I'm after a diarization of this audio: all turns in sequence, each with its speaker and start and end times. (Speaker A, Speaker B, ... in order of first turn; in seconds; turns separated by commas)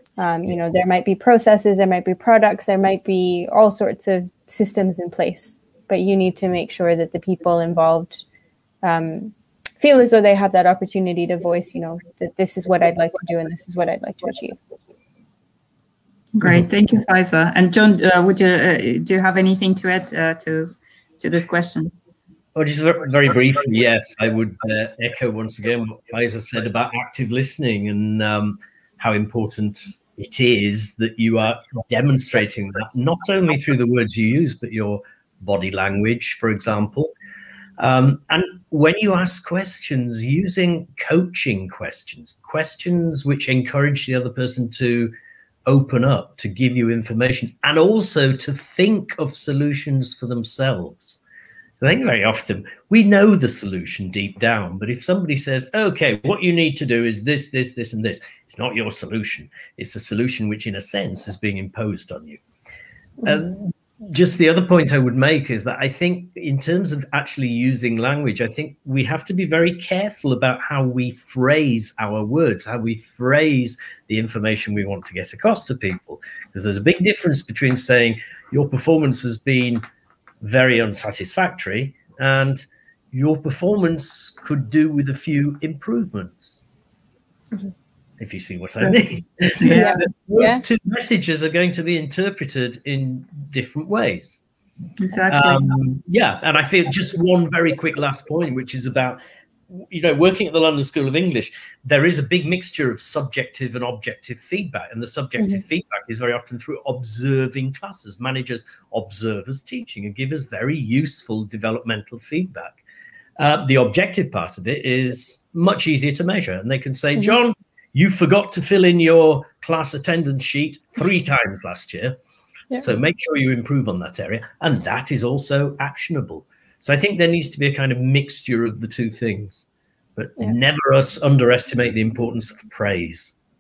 Speaker A: 0.2-8.2, Speaker A: 8.8-14.6, Speaker B: 16.4-21.9, Speaker C: 22.6-37.1, Speaker C: 37.8-45.1, Speaker C: 45.7-51.2, Speaker C: 51.8-62.4, Speaker C: 63.2-79.8, Speaker C: 80.4-86.6, Speaker C: 88.2-94.4, Speaker B: 89.6-90.0, Speaker A: 89.7-90.6, Speaker B: 95.0-95.7, Speaker C: 95.3-112.8, Speaker C: 113.4-122.2, Speaker C: 122.8-129.7, Speaker C: 130.2-133.4